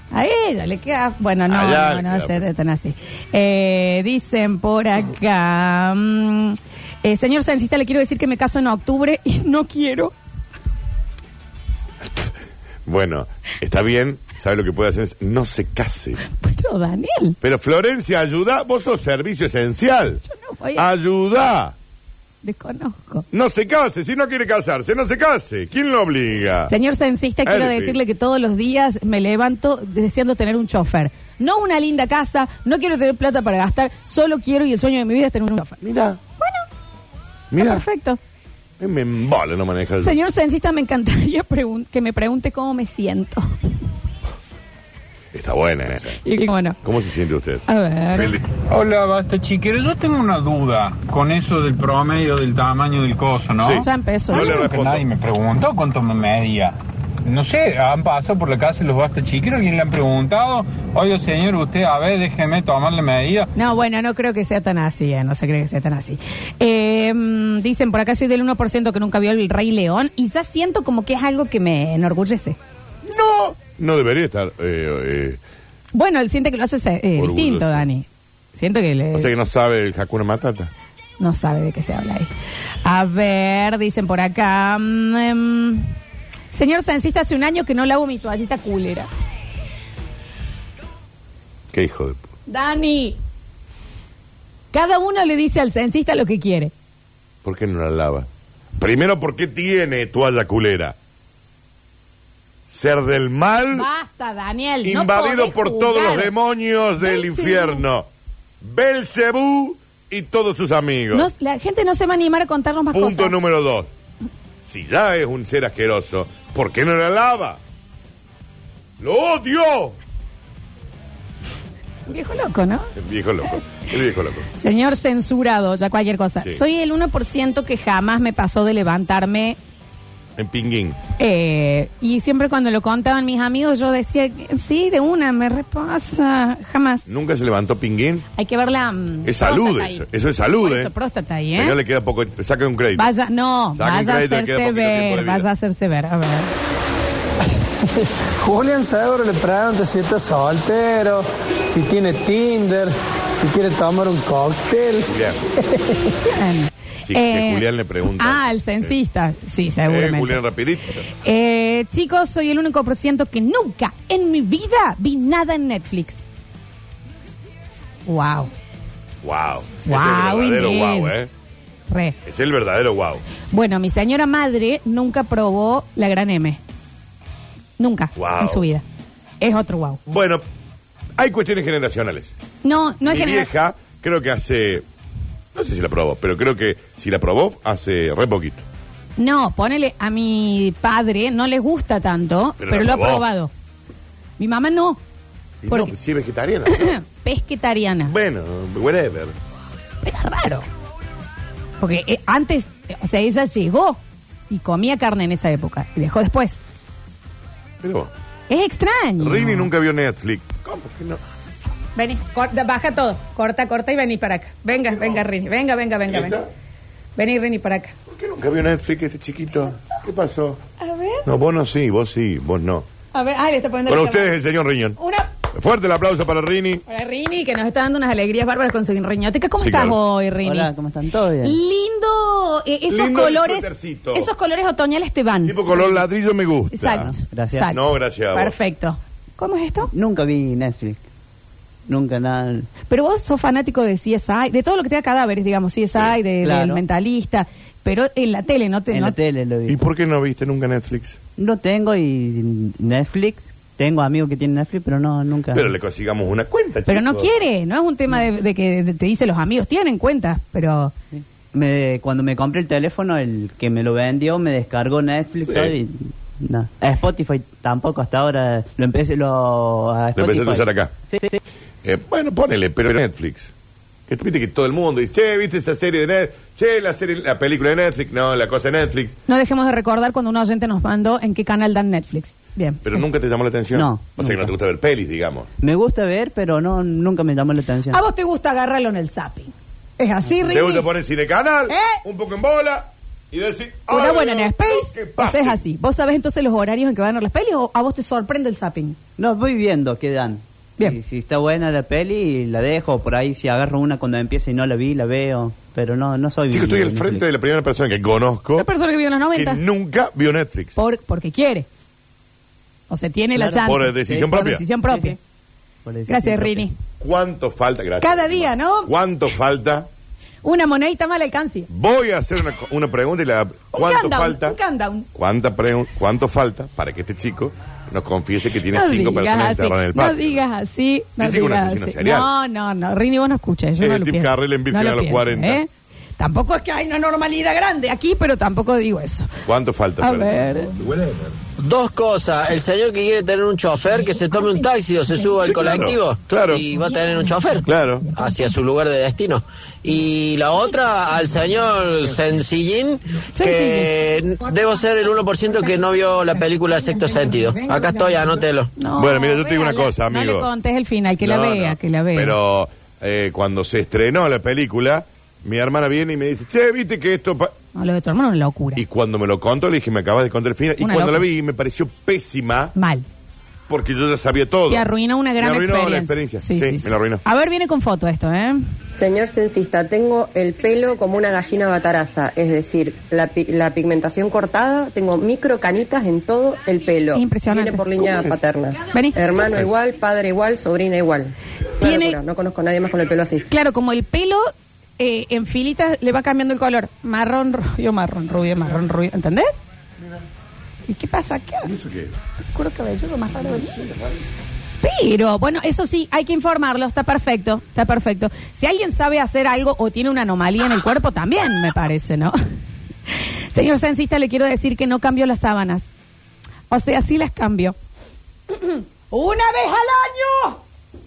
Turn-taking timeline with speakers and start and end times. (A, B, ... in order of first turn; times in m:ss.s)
0:00.1-0:10.1 A
0:01.5-0:02.5 B
0:12.0-0:16.2 B
0:16.3-0:17.4 A
0:17.4-0:20.2 B
0:20.2-0:20.9 A
0:20.8-0:21.8 B
0:22.4-0:23.3 A
0:23.3-0:26.7 B
0:26.7-0:35.8 A
0:27.4-0:28.0 B
0:35.8-0:36.2 B
0:37.5-0:37.8 B
0:37.6-0:38.2 A
0:38.8-0:40.2 B
0:40.0-0:43.5 A
0:45.3-0:46.2 B
0:46.2-0:46.8 A
0:46.8-0:48.4 B
0:47.7-0:48.4 A
0:48.7-1:03.5 C
0:53.6-0:55.1 B
0:53.8-0:54.6 A
1:03.6-1:12.6 A
1:13.0-1:15.4 B
1:15.9-1:19.3 A
1:17.2-1:17.9 B
1:19.1-1:20.7 B
1:21.2-1:22.3 A
1:22.8-1:25.9 A
1:26.5-1:29.1 A
1:31.7-1:32.2 B
1:32.5-1:33.2 A
1:34.7-1:36.7 A
1:37.4-1:38.3 B
1:38.8-1:41.0 B
1:42.7-1:43.9 B
1:43.7-1:46.3 A
1:44.8-1:48.1 B
1:47.0-1:47.8 A
1:48.6-1:51.3 B
1:51.1-1:53.4 A
1:52.9-1:53.9 B
1:54.6-1:57.6 B
1:59.0-2:00.0 B
2:02.1-2:02.9 A
2:03.0-2:04.5 B
2:04.6-2:09.6 A
2:10.4-2:11.0 B
2:11.2-2:17.0 A
2:17.1-2:18.3 B
2:18.4-2:20.0 A
2:19.2-2:20.9 B
2:20.6-2:21.8 A
2:21.6-2:23.1 B
2:23.0-2:26.5 A
2:23.7-2:25.5 B
2:28.4-2:35.1 D
2:35.1-2:35.4 B
2:36.2-2:37.7 A
2:37.0-2:38.9 B
2:38.2-2:40.4 A
2:39.9-2:41.1 B
2:41.2-2:46.2 A
2:48.1-2:48.5 A
2:49.2-2:51.3 B
2:49.8-2:51.1 A
2:51.9-2:52.2 A
2:52.2-2:53.2 B
2:53.5-2:56.6 A
2:57.8-2:58.8 A
2:58.2-2:58.6 B
2:59.4-3:00.0 A
3:00.1-3:00.4 B
3:01.2-3:02.3 B
3:02.6-3:03.5 A
3:03.0-3:04.8 B
3:05.5-3:08.6 B
3:09.2-3:13.5 A
3:12.6-3:13.3 B
3:14.4-3:15.0 A
3:15.6-3:17.0 B
3:16.7-3:18.1 A
3:18.1-3:19.3 B
3:20.0-3:20.7 A
3:21.8-3:26.6 A
3:27.8-3:28.1 B
3:28.5-3:29.7 A
3:29.2-3:31.2 B
3:32.0-3:36.4 A
3:34.9-3:35.2 B
3:36.1-3:36.5 B
3:37.2-3:38.0 A
3:38.1-3:40.6 B
3:40.8-3:41.3 A
3:41.2-3:42.9 B
3:43.1-3:44.3 A
3:43.9-3:45.0 B
3:45.0-3:45.3 A
3:45.5-3:46.8 B
3:46.9-3:50.7 A
3:49.6-3:50.0 B
3:50.4-3:51.6 E
3:51.4-3:56.0 A
3:52.9-3:54.3 B
3:55.4-3:57.1 B
3:56.7-3:57.8 A
3:57.0-3:57.7 E
3:57.6-3:58.6 B
3:58.3-3:59.9 A
3:59.9-4:01.0 E
4:01.9-4:02.7 E
4:02.9-4:09.2 A
4:06.4-4:06.8 E
4:08.9-4:09.8 E
4:09.7-4:11.2 B
4:11.4-4:15.7 E
4:15.5-4:17.3 B
4:16.9-4:20.9 A
4:21.1-4:31.4 E
4:25.4-4:25.7 B
4:30.2-4:30.9 B
4:31.8-4:33.5 B
4:34.1-4:39.2 B
4:39.3-4:43.0 A
4:42.8-4:45.5 B
4:43.7-4:44.5 E
4:45.6-4:48.0 E
4:47.9-4:50.9 A
4:50.4-4:55.6 B
4:51.7-4:52.0 A
4:53.9-4:59.0 A
4:59.2-5:07.3 E
5:06.5-5:08.7 B
5:08.6-5:09.6 A
5:09.3-5:10.7 B
5:10.8-5:11.7 A
5:12.9-5:15.2 A
5:13.6-5:14.6 B
5:14.9-5:15.2 E
5:15.8-5:16.7 E
5:16.1-5:16.8 A
5:17.0-5:19.9 B
5:18.0-5:18.9 A
5:20.4-5:21.7 A
5:21.7-5:24.6 B
5:23.7-5:25.1 A
5:25.2-5:30.4 B
5:28.7-5:39.3 A
5:31.2-5:32.3 B
5:33.8-5:35.6 B
5:39.5-5:41.3 B
5:40.0-5:40.7 A
5:41.6-5:58.7 F
5:45.4-5:46.6 B
5:47.7-5:48.1 B
5:53.4-5:53.9 A
5:58.8-6:02.4 A
5:59.0-6:00.5 B
6:01.2-6:07.5 B
6:07.8-6:08.8 A
6:08.8-6:12.7 B
6:10.8-6:11.3 A
6:12.8-6:13.1 A
6:13.7-6:17.2 B
6:14.7-6:18.6 A
6:18.9-6:33.4 G
6:27.1-6:27.8 A
6:28.0-6:28.4 B
6:28.9-6:29.2 A
6:31.8-6:32.2 A
6:33.5-6:39.5 A
6:40.0-6:40.2 B
6:40.9-6:41.7 A
6:41.6-6:42.2 B
6:42.5-6:43.8 A
6:43.4-6:44.3 B
6:44.8-6:52.4 A
6:53.1-6:55.9 A
6:56.7-6:57.8 A
6:58.5-7:00.6 A